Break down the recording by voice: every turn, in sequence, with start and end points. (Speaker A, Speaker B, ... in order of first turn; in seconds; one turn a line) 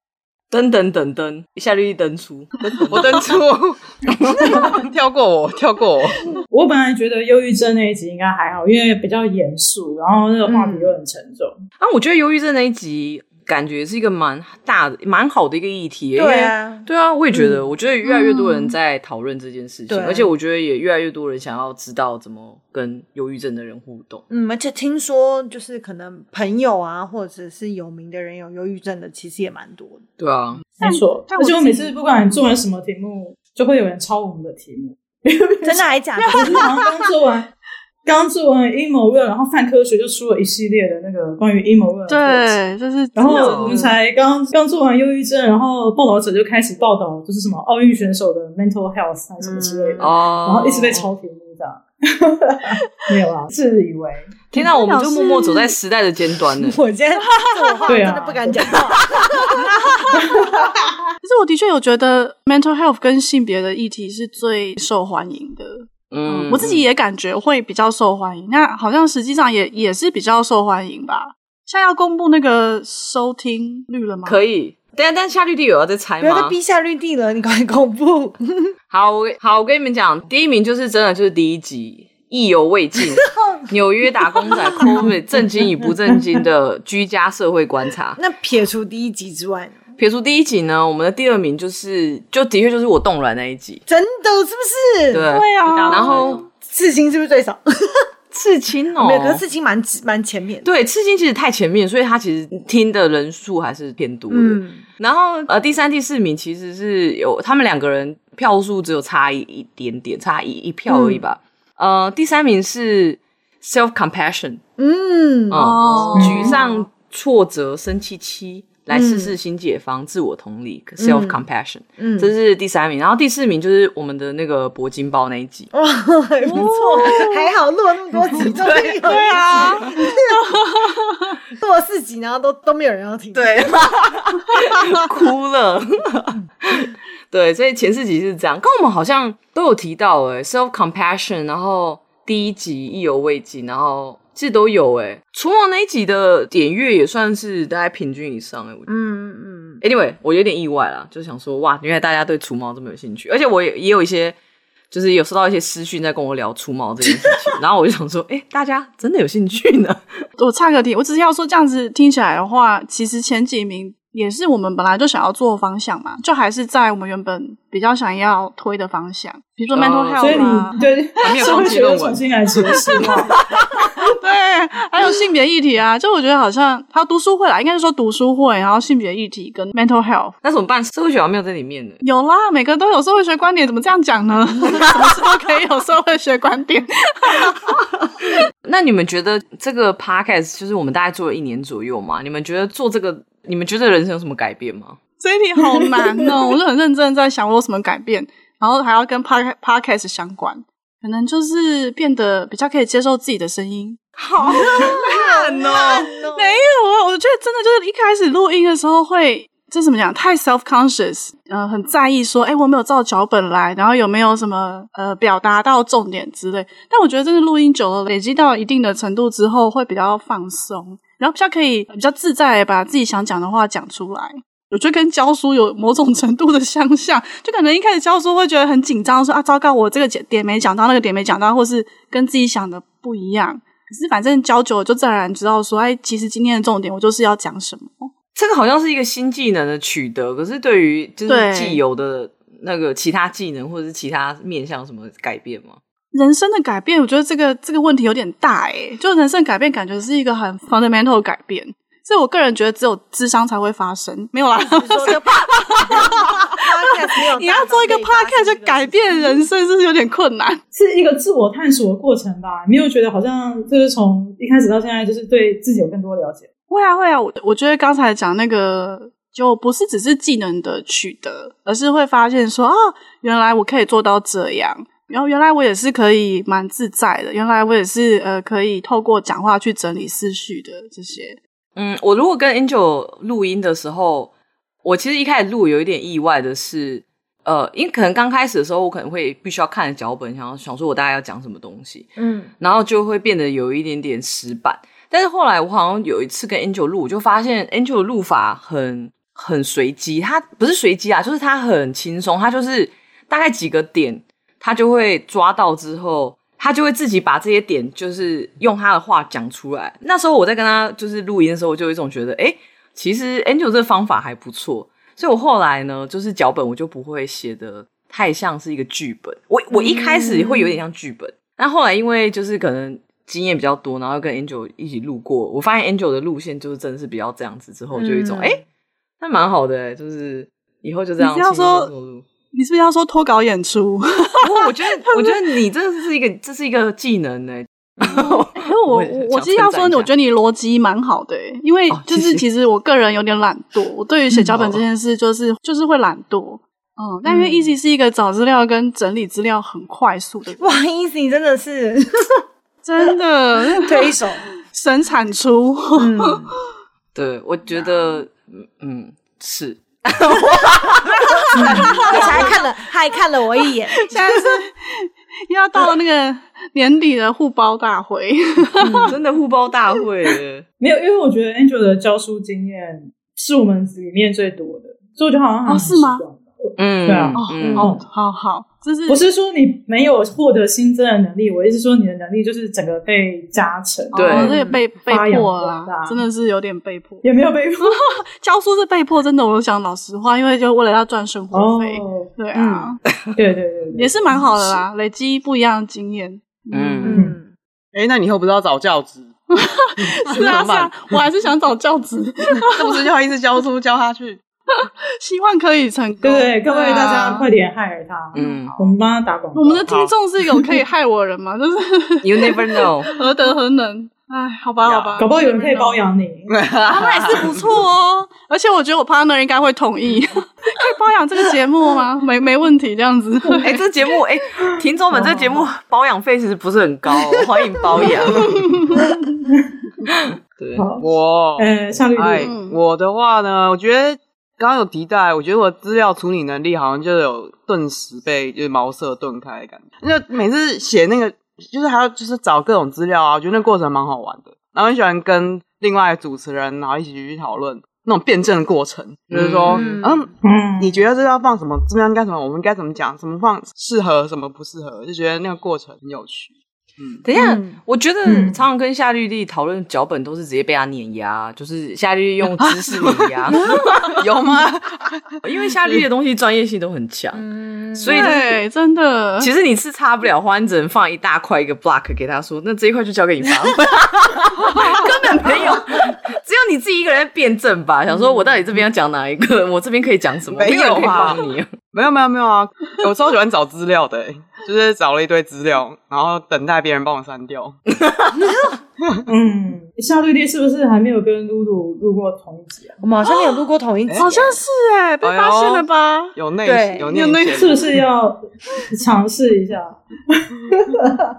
Speaker A: 0.5-3.4
Speaker B: 2.7-6.3
Speaker A: 4.1-4.7
Speaker C: 6.5-11.5
Speaker D: 10.4-10.9
Speaker A: 11.8-24.2
Speaker D: 16.1-18.5
Speaker D: 19.9-20.3
Speaker D: 24.3-30.0
Speaker A: 30.2-30.6
Speaker C: 30.8-37.5
Speaker E: 30.8-32.4
Speaker D: 35.6-36.9
Speaker E: 36.2-36.9
Speaker C: 38.0-42.6
Speaker E: 42.1-43.9
Speaker C: 43.1-54.4
Speaker A: 43.3-43.8
Speaker D: 49.4-50.1
Speaker A: 50.0-51.1
Speaker A: 54.5-56.8
Speaker E: 54.6-55.7
Speaker D: 56.6-59.6
Speaker E: 57.3-58.0
Speaker C: 57.9-58.8
Speaker C: 60.1-60.5
Speaker D: 60.4-60.7
Speaker E: 61.2-74.4
Speaker A: 66.1-66.8
Speaker A: 74.2-76.5
Speaker D: 76.2-78.7
Speaker A: 78.9-88.2
Speaker D: 84.8-85.1
Speaker D: 88.2-89.8
Speaker A: 90.0-93.8
Speaker D: 93.9-95.3
Speaker A: 95.1-96.4
Speaker E: 95.3-96.5
Speaker D: 95.8-98.0
Speaker A: 98.3-99.4
Speaker D: 99.0-100.7
Speaker A: 100.6-114.6
Speaker D: 104.3-104.8
Speaker D: 110.9-111.2
Speaker D: 114.8-116.8
Speaker A: 115.5-125.7
Speaker E: 115.5-116.5
Speaker C: 116.1-116.5
Speaker D: 118.9-119.3
Speaker D: 121.0-121.4
Speaker D: 122.0-122.3
Speaker D: 125.7-130.2
Speaker E: 126.5-127.5
Speaker A: 126.5-127.1
Speaker A: 128.4-130.0
Speaker E: 129.0-130.9
Speaker D: 131.6-133.9
Speaker A: 133.3-148.9
Speaker D: 148.9-149.8
Speaker A: 149.8-154.3
Speaker A: 154.9-160.0
Speaker E: 160.4-170.8
Speaker A: 169.7-170.6
Speaker C: 170.2-173.3
Speaker A: 171.2-172.2
Speaker B: 171.4-173.1
Speaker E: 173.8-180.3
Speaker A: 180.4-182.0
Speaker E: 182.0-187.7
Speaker A: 188.6-195.0
Speaker E: 195.2-204.0
Speaker A: 204.2-206.1
Speaker D: 204.5-206.6
Speaker E: 204.5-205.0
Speaker E: 206.3-238.1
Speaker A: 238.3-245.8
Speaker E: 241.3-241.8
Speaker E: 246.1-256.6
Speaker D: 254.6-259.4
Speaker E: 257.3-260.6
Speaker C: 260.7-266.5
Speaker E: 266.7-281.4
Speaker A: 281.8-284.3
Speaker A: 284.8-328.6
Speaker D: 292.1-292.5
Speaker D: 319.7-320.8
Speaker D: 327.9-328.6
Speaker A: 329.2-332.2
Speaker E: 331.2-331.9
Speaker E: 332.5-335.4
Speaker A: 334.4-340.1
Speaker E: 338.0-350.8
Speaker A: 341.9-342.4
Speaker A: 344.4-344.8
Speaker D: 347.2-347.7
Speaker D: 350.6-352.4
Speaker E: 352.8-356.4
Speaker D: 353.7-354.4
Speaker D: 355.9-356.5
Speaker A: 357.1-362.6
Speaker D: 361.6-364.5
Speaker C: 361.6-362.0
Speaker E: 361.7-362.6
Speaker E: 364.0-369.1
Speaker D: 368.8-369.1
Speaker A: 369.1-370.6
Speaker C: 370.8-378.0
Speaker E: 375.6-376.2
Speaker A: 376.8-377.9
Speaker E: 377.4-379.2
Speaker D: 377.6-377.9
Speaker C: 379.1-386.2
Speaker A: 384.1-384.6
Speaker E: 384.1-387.2
Speaker D: 384.4-384.8
Speaker C: 387.2-388.0
Speaker E: 387.8-393.0
Speaker C: 391.5-394.8
Speaker E: 393.9-397.2
Speaker A: 396.7-397.2
Speaker D: 397.0-397.5
Speaker C: 397.1-397.4
Speaker B: 397.9-399.3
Speaker E: 399.5-403.1
Speaker B: 400.0-401.2
Speaker B: 402.6-404.4
Speaker E: 404.7-407.5
Speaker C: 406.2-409.9
Speaker A: 408.3-408.8
Speaker E: 408.4-408.7
Speaker E: 409.5-416.0
Speaker B: 409.9-410.7
Speaker A: 412.2-413.1
Speaker B: 414.8-415.2
Speaker C: 415.2-416.5
Speaker B: 416.5-417.7
Speaker E: 416.9-423.8
Speaker C: 423.4-423.8
Speaker A: 423.6-428.5
Speaker C: 424.8-425.5
Speaker A: 430.0-430.9
Speaker C: 430.8-432.5
Speaker B: 431.0-457.2
Speaker E: 432.4-432.8
Speaker A: 449.3-450.0
Speaker D: 449.7-450.3
Speaker C: 450.4-451.0
Speaker A: 457.2-464.2
Speaker D: 457.3-458.5
Speaker C: 458.2-458.6
Speaker B: 462.5-466.0
Speaker A: 465.4-468.5
Speaker D: 467.3-468.4
Speaker E: 468.1-469.5
Speaker A: 469.4-481.7
Speaker B: 480.5-487.8
Speaker A: 487.9-488.5
Speaker D: 488.3-488.8
Speaker C: 489.3-493.0
Speaker D: 493.0-494.6
Speaker E: 494.2-496.3
Speaker B: 495.2-498.0
Speaker D: 496.6-497.1
Speaker E: 497.1-497.8
Speaker C: 497.5-501.2